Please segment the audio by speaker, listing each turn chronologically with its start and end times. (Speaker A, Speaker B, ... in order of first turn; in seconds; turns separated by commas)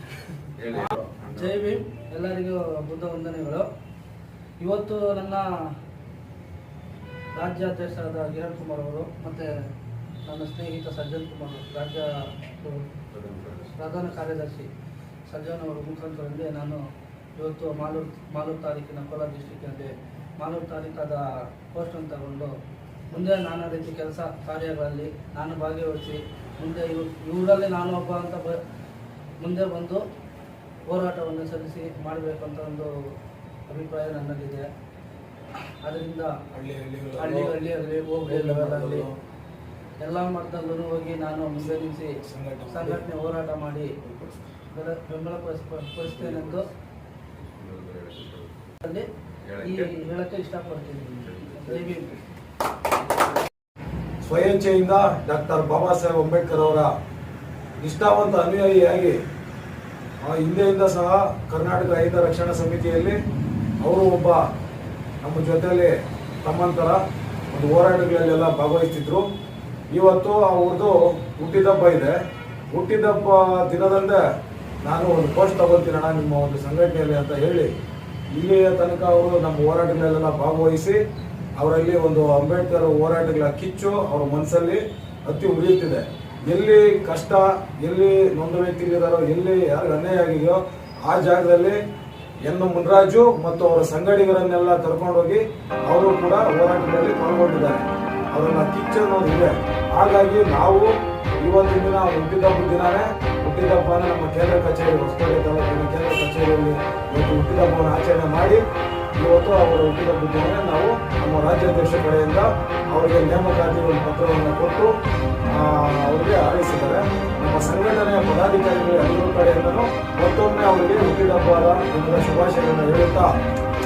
Speaker A: 0.6-1.6, Speaker B: 1.4-3.7, Speaker B: 4.6-5.5, Speaker B: 7.4-9.5, Speaker B: 10.3-12.8, Speaker A: 13.1-13.8, Speaker B: 13.8-14.7, Speaker B: 15.3-16.8, Speaker B: 17.4-21.2, Speaker B: 21.7-22.5, Speaker B: 23.1-28.6, Speaker B: 29.4-30.0, Speaker B: 30.9-32.9, Speaker B: 33.7-34.7, Speaker B: 35.8-36.3, Speaker C: 36.5-37.6, Speaker B: 37.2-39.1, Speaker C: 38.3-39.1, Speaker B: 40.0-42.1, Speaker C: 42.3-43.0, Speaker B: 42.7-43.9, Speaker C: 44.1-44.3, Speaker B: 44.7-46.7, Speaker A: 46.2-46.6, Speaker A: 47.4-48.7, Speaker A: 49.5-49.9, Speaker B: 49.6-52.1, Speaker A: 51.2-52.0, Speaker C: 54.2-56.9, Speaker C: 57.8-59.2, Speaker C: 60.2-63.2, Speaker C: 63.8-64.4, Speaker C: 65.2-67.0, Speaker C: 67.5-69.3, Speaker C: 69.9-72.1, Speaker C: 72.7-74.2, Speaker C: 74.8-77.7, Speaker C: 78.3-81.0, Speaker C: 81.6-91.8, Speaker C: 92.5-108.6, Speaker C: 109.2-114.9, Speaker C: 115.5-123.3